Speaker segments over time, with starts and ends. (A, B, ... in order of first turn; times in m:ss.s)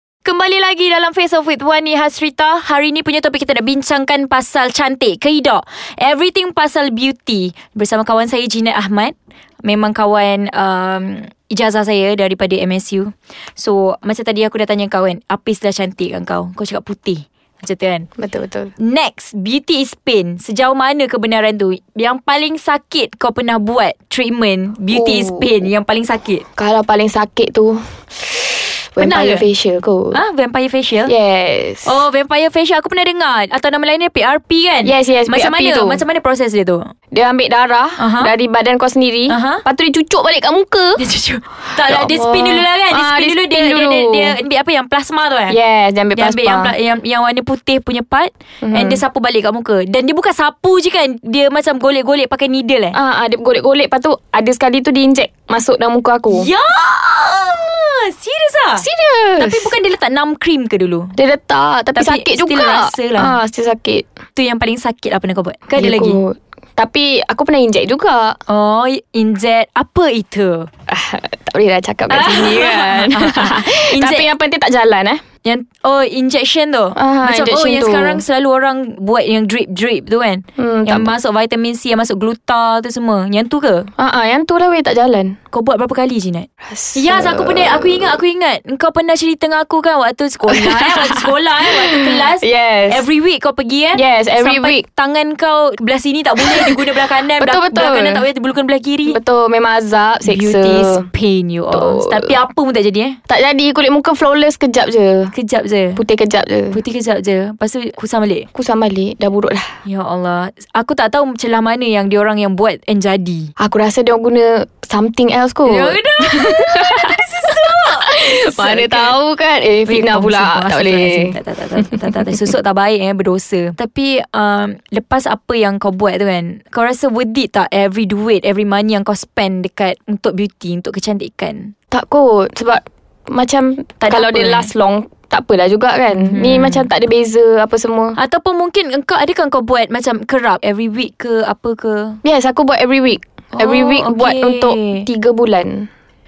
0:00.2-0:18.1 A
0:18.2-0:18.7 B
0:18.8-0:26.4 A
0:24.9-0:25.5 B
0:26.6-0:30.2 B
0:29.0-0:29.5 A
0:30.1-0:31.1 A
0:31.0-0:32.0 B
0:31.8-0:36.9 A
0:34.8-0:36.0 B
0:37.1-0:41.0 B
0:38.0-0:38.3 A
0:39.3-0:39.6 A
0:41.0-0:45.6 A
0:41.9-0:44.4 B
0:45.5-0:46.7 B
0:46.2-0:53.0 A
0:48.6-0:49.0 B
0:52.9-0:56.5 B
0:56.3-0:58.9 A
0:58.8-0:59.7 B
0:59.4-1:01.1 A
1:01.2-1:04.1 B
1:02.0-1:03.4 A
1:04.4-1:06.2 A
1:05.8-1:08.4 B
1:08.5-1:10.7 A
1:10.9-1:15.2 B
1:12.1-1:14.3 A
1:15.4-1:23.9 A
1:17.0-1:18.2 B
1:20.6-1:21.1 B
1:24.0-1:25.4 B
1:25.5-1:39.2 A
1:26.7-1:28.2 B
1:30.5-1:31.3 B
1:31.9-1:33.0 B
1:33.9-1:34.9 B
1:36.4-1:36.8 B
1:37.4-1:38.2 B
1:39.1-1:41.1 B
1:40.2-1:43.2 A
1:41.7-1:42.4 B
1:43.3-1:45.3 B
1:45.3-1:46.0 A
1:46.0-1:46.8 B
1:46.7-1:48.5 A
1:48.5-1:49.7 B
1:49.8-1:53.5 A
1:53.6-1:57.2 B
1:55.7-1:59.2 A
1:58.0-2:02.2 B
1:59.9-2:11.7 A
2:11.9-2:18.2 B
2:14.0-2:14.7 A
2:16.1-2:16.9 A
2:18.2-2:22.2 A
2:22.2-2:25.9 B
2:23.6-2:25.1 A